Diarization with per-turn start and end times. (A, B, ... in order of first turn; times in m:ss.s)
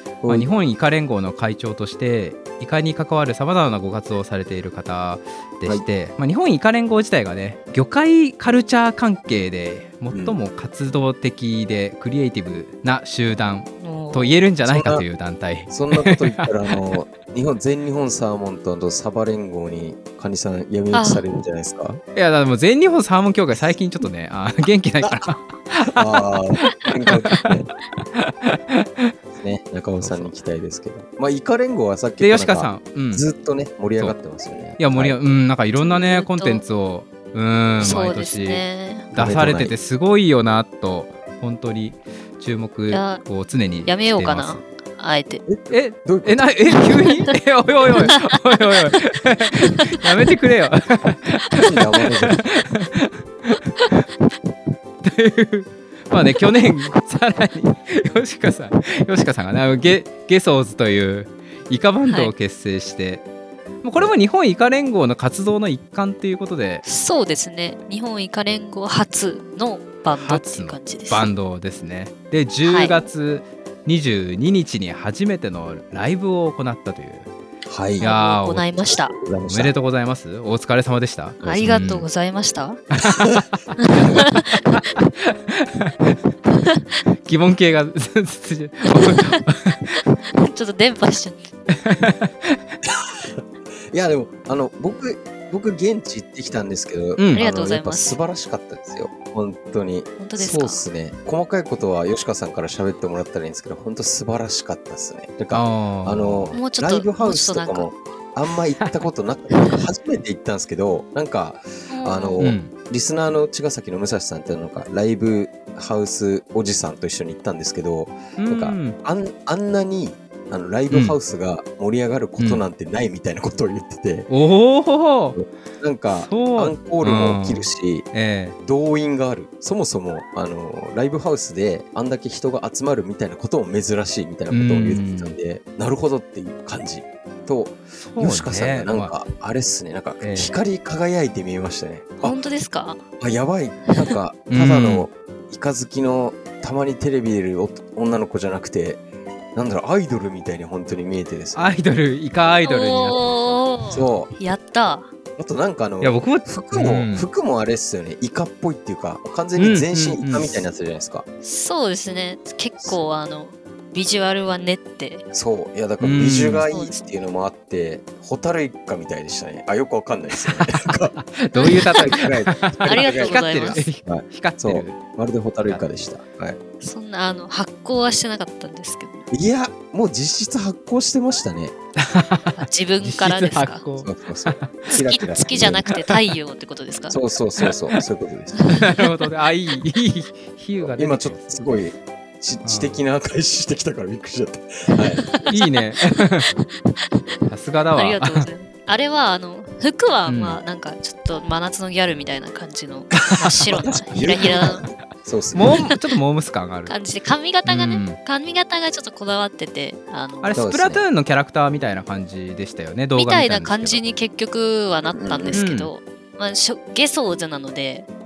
0:00.2-0:00.5 A
0:00.3-0:16.9 B
0:10.1-0:10.4 A
0:13.8-0:14.4 C
0:14.6-0:15.0 A
0:15.7-0:22.0 A
0:20.9-0:21.2 C
0:22.1-0:29.1 B
0:25.0-0:25.3 A
0:25.9-0:27.7 A
0:29.4-0:35.2 A
0:30.0-0:30.3 B
0:32.2-0:33.2 B
0:34.8-0:44.6 B
0:35.8-0:36.6 C
0:37.8-0:39.1 C
0:39.1-0:39.7 A
0:42.9-0:43.2 C
0:43.8-0:45.4 C
0:45.5-0:46.8 A
0:45.7-0:54.0 B
0:48.0-0:48.4 C
0:49.6-0:50.0 C
0:51.6-0:52.4 A
0:55.0-1:03.2 B
1:02.0-1:02.3 C
1:03.8-1:06.8 B
1:06.8-1:11.3 C
1:10.1-1:17.3 B
1:12.6-1:12.9 C
1:17.6-1:18.1 A
1:18.0-1:18.6 B
1:18.0-1:19.1 C
1:18.9-1:19.7 A
1:19.4-1:22.1 B
1:21.4-1:22.8 C
1:21.4-1:21.8 A
1:23.0-1:23.2 B
1:23.8-1:24.8 C
1:24.0-1:26.1 B
1:26.6-1:27.0 C
1:27.2-1:29.8 B
1:30.3-1:31.4 C
1:31.7-1:32.6 B
1:32.8-2:04.3 A
1:37.2-1:37.4 B
1:37.3-1:38.2 C
1:40.2-1:40.8 C
1:45.5-1:46.5 B
1:46.5-1:47.9 C
1:51.9-1:52.4 C
1:52.4-1:52.7 B
1:58.4-1:59.0 B
2:00.9-2:01.2 B
2:02.4-2:02.6 B
2:04.3-2:05.4 B
2:05.4-2:08.1 A
2:06.1-2:08.6 B
2:08.6-2:22.4 A
2:14.5-2:15.3 B
2:18.0-2:19.1 B
2:20.2-2:20.6 B
2:22.2-2:23.0 C
2:23.2-2:29.0 A
2:24.5-2:25.1 B
2:29.5-2:31.7 A
2:31.5-2:33.6 B
2:32.6-2:35.1 C
2:33.9-2:34.3 A
2:35.4-2:41.2 A
2:36.0-2:37.3 B
2:39.6-2:40.6 B
2:41.4-2:45.2 C
2:45.3-2:56.6 A
2:46.0-2:46.6 B
2:46.7-2:47.0 C
2:50.4-2:55.0 B
2:51.5-2:52.2 C
2:52.8-2:53.9 C
2:56.8-2:59.3 C
2:59.3-3:01.7 A
3:02.0-3:04.8 B
3:02.5-3:03.8 C
3:04.0-3:05.9 A
3:04.9-3:07.2 C
3:07.1-3:08.8 A
3:08.6-3:09.1 C
3:08.6-3:11.6 B
3:10.8-3:15.2 A
3:12.6-3:13.0 B
3:15.0-3:17.2 C
3:15.4-3:16.5 B
3:17.5-3:18.5 B
3:17.9-3:24.9 C
3:20.2-3:20.6 B
3:23.2-3:23.9 B
3:23.8-3:25.8 A
3:25.5-3:26.9 B
3:26.9-3:30.6 C
3:27.6-3:28.2 B
3:30.4-3:34.0 B
3:30.5-3:31.0 A
3:33.2-3:38.1 C
3:35.1-3:35.6 A
3:35.5-3:35.9 B